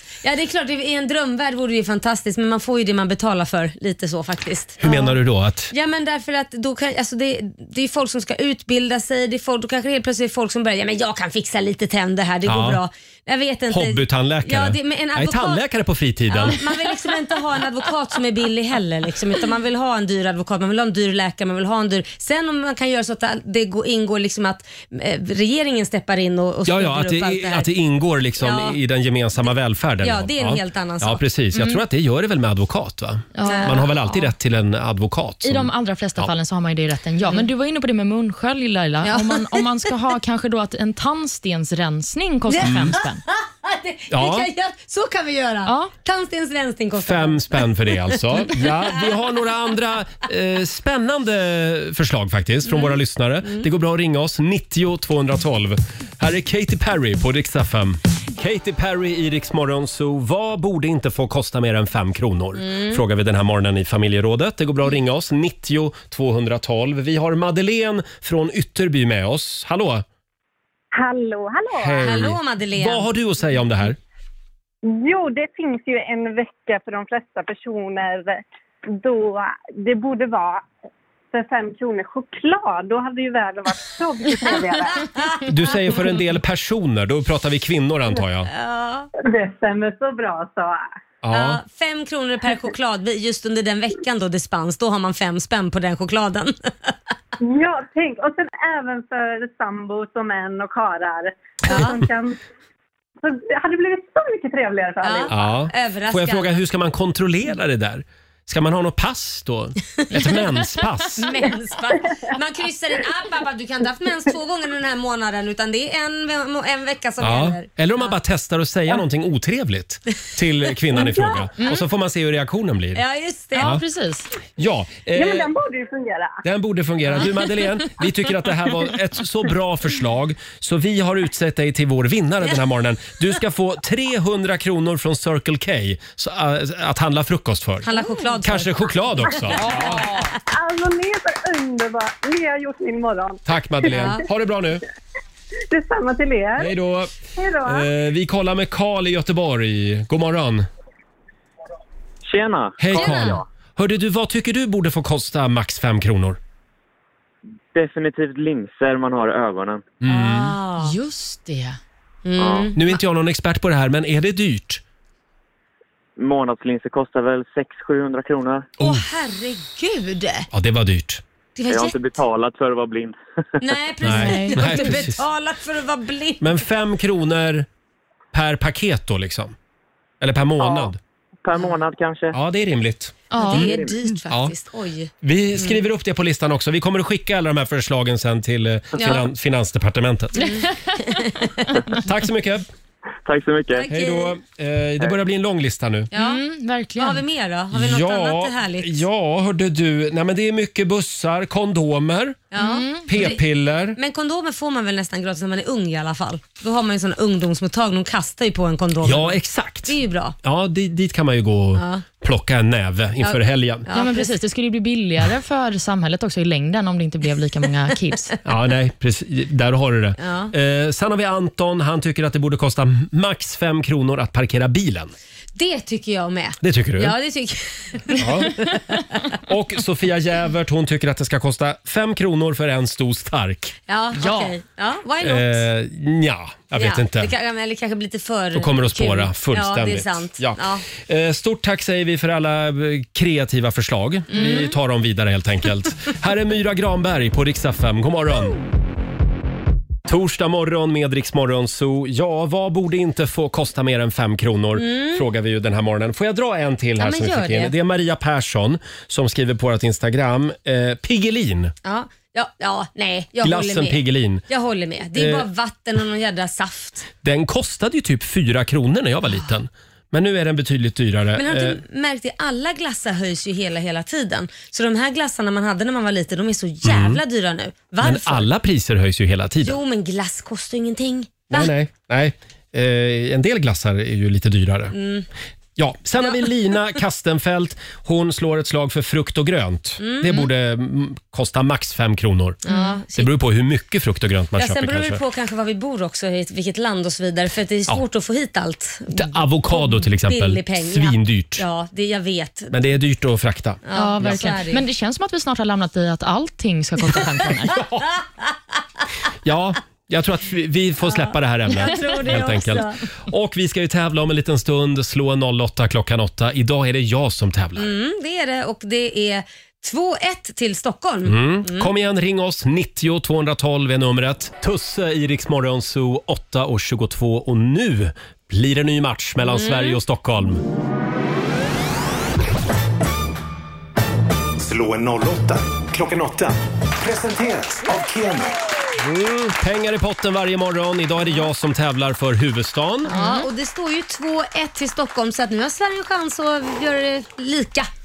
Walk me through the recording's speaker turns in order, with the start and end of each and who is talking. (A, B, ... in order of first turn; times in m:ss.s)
0:00.2-0:05.2 A
0:04.8-0:05.7 B
0:05.7-0:15.6 A
0:12.4-0:12.8 B
0:13.7-0:16.8 B
0:16.3-0:27.7 A
0:26.6-0:36.3 B
0:28.4-0:28.8 A
0:30.0-0:31.2 A
0:33.3-0:34.2 C
0:33.4-0:33.9 A
0:35.4-0:43.2 C
0:39.0-0:39.6 A
0:42.5-0:49.0 A
0:42.6-0:43.0 B
0:44.1-0:44.5 B
0:45.6-0:45.9 C
0:47.0-1:10.0 B
1:02.6-1:03.0 A
1:10.9-1:12.2 D
1:11.7-1:14.0 B
1:12.0-1:13.0 A
1:14.8-1:20.6 D
1:21.3-1:25.4 D
1:25.5-1:28.5 B
1:28.5-1:29.1 A
1:29.2-1:30.8 D
1:31.2-1:31.6 B
1:31.3-1:36.9 A
1:37.4-1:42.4 D
1:41.7-1:42.0 A
1:43.2-1:45.3 D
1:45.0-1:46.6 A
1:45.3-1:51.3 B
1:51.2-1:58.1 A
1:57.2-2:03.0 B
2:00.9-2:01.2 A
2:01.6-2:01.8 C
2:02.9-2:03.8 A
2:03.5-2:04.3 C
2:04.6-2:05.5 B
2:05.1-2:06.4 D
2:06.4-2:17.9 B
2:17.8-2:20.3 A
2:18.4-2:20.0 B
2:19.6-2:23.9 D
2:23.4-2:24.8 B
2:23.9-2:24.2 A
2:25.7-2:26.7 D
2:26.6-2:30.7 B
2:27.3-2:27.9 D
2:32.2-2:33.3 E
2:32.8-2:36.4 B
2:32.9-2:33.4 A
2:37.7-2:39.8 E
2:40.0-2:40.6 B
2:40.0-2:41.0 A
2:40.8-2:41.8 C
2:42.2-2:42.8 A
2:42.4-2:42.7 E
2:42.7-2:44.8 B
2:46.2-2:48.7 E
2:48.8-2:49.0 B
2:48.8-2:50.5 A
2:50.5-2:51.2 B
2:51.6-2:52.0 A
2:51.7-2:53.2 E
2:53.6-2:56.6 A
2:54.0-2:55.2 B
2:54.1-2:54.9 C
2:56.4-2:57.7 B
2:58.3-2:59.5 B
3:00.2-3:01.0 B
3:00.6-3:00.9 E
3:01.4-3:02.4 E
3:02.3-3:03.7 B
3:03.3-3:03.7 C
3:03.4-3:05.8 A
3:05.2-3:10.6 B
3:09.0-3:09.2 A
3:10.4-3:12.0 A
3:12.0-3:12.6 B
3:13.2-3:13.9 E
3:13.7-3:14.4 A
3:13.9-3:16.1 B
3:16.1-3:16.4 A
3:16.1-3:17.2 C
3:17.0-3:19.0 A
3:17.7-3:22.5 B
3:22.5-3:23.4 A
3:22.6-3:23.3 C
3:23.0-3:24.0 B
3:23.9-3:30.4 A
3:29.0-3:33.9 B
3:31.8-3:32.0 A
3:33.2-3:34.3 A
3:33.9-3:38.4 C
3:38.4-3:45.1 B
3:40.2-3:40.5 A
3:45.6-3:49.2 A
3:46.6-3:47.2 B
3:48.2-3:48.6 B
3:49.4-3:53.8 B
3:53.9-3:55.6 A
3:54.2-3:54.5 C
3:55.2-3:57.3 B
3:56.7-4:00.9 A
3:58.5-4:08.6 B
4:04.3-4:04.7 A
4:10.0-4:21.7 B
4:14.7-4:15.2 A
4:17.0-4:17.7 A
4:21.8-4:27.1 A
4:23.4-4:24.4 B
4:25.1-4:25.5 B
4:27.2-4:31.8 B
4:31.4-4:38.5 A
4:36.8-4:37.2 B
4:38.0-4:39.8 B
4:39.6-4:41.7 A
4:41.5-4:44.9 B
4:44.9-4:45.3 A
4:45.8-4:52.6 B
4:50.0-4:50.5 A
4:52.6-4:53.3 A
4:52.7-4:52.9 C
4:53.1-4:55.2 B
4:54.6-5:02.8 A
4:59.1-5:01.6 B
5:02.7-5:04.4 B
5:03.8-5:04.8 A
5:03.9-5:07.8 C
5:09.4-5:17.9 B
5:11.0-5:13.0 A
5:17.8-5:21.9 A
5:21.2-5:30.6 B
5:29.5-5:30.0 A
5:34.6-5:38.6 F
5:39.0-5:43.2 B
5:43.0-5:47.9 A
5:43.2-5:43.4 C